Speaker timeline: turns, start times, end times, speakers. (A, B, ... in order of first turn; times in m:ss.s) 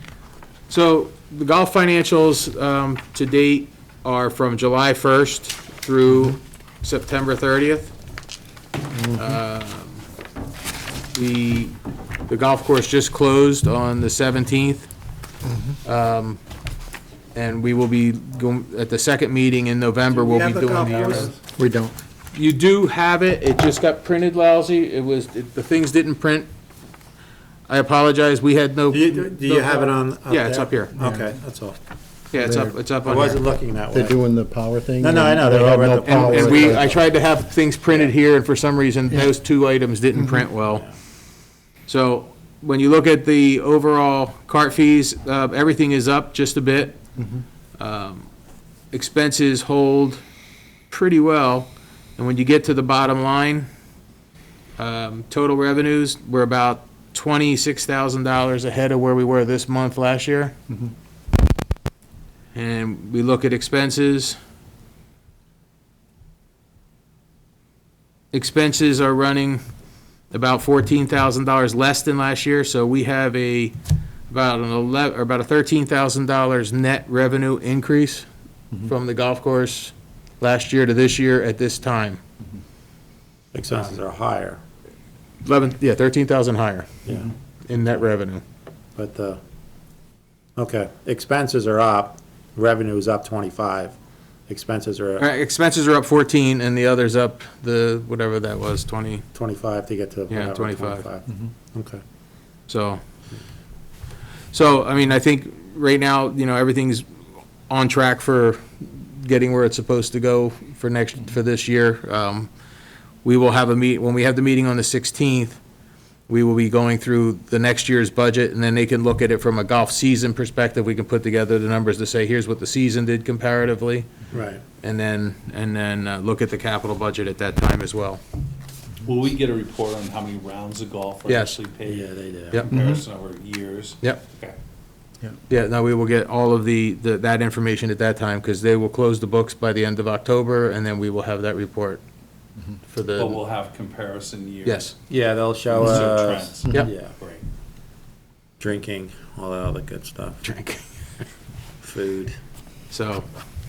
0:00.7-0:07.9 A
0:09.0-0:09.4 B
0:09.2-0:10.0 A
0:11.1-0:11.8 A
0:12.3-0:14.9 A
0:15.5-0:15.8 B
0:15.8-0:16.4 A
0:17.4-0:21.3 A
0:20.1-0:21.4 C
0:21.6-0:22.0 B
0:22.3-0:26.5 A
0:27.7-0:30.9 A
0:28.9-0:31.8 C
0:31.0-0:31.3 B
0:32.3-0:33.4 A
0:32.3-0:32.8 B
0:33.0-0:34.2 C
0:33.9-0:37.0 B
0:35.0-0:37.1 C
0:36.0-0:40.9 A
0:40.1-0:40.5 B
0:41.9-0:47.0 A
0:47.2-0:47.4 B
0:47.8-0:48.3 A
0:48.9-0:50.2 A
0:50.9-0:53.7 A
0:54.8-1:00.6 A
1:02.5-1:04.4 A
1:08.3-1:09.6 A
1:10.3-1:13.8 A
1:14.3-1:18.3 A
1:18.8-1:22.2 A
1:23.5-1:24.6 C
1:25.4-1:26.9 A
1:27.1-1:27.3 C
1:27.7-1:28.4 A
1:29.0-1:29.4 C
1:30.6-1:33.9 C
1:34.5-1:35.2 C
1:35.2-1:39.2 A
1:39.4-1:42.0 C
1:40.3-1:41.1 A
1:42.7-1:43.0 A
1:44.5-1:47.1 A
1:47.7-1:52.5 A
1:53.2-1:55.6 A
1:56.3-2:04.1 A
2:04.3-2:04.6 C
2:04.8-2:08.2 A
2:09.0-2:14.6 D
2:11.3-2:11.6 A
2:11.9-2:12.6 C
2:12.7-2:13.0 B
2:15.5-2:22.0 A
2:22.9-2:23.4 A
2:23.2-2:24.9 D
2:24.6-2:24.9 A
2:25.1-2:27.2 C
2:25.7-2:27.4 D
2:28.6-2:30.4 C
2:30.4-2:30.8 A
2:31.8-2:32.4 C
2:32.9-2:33.2 A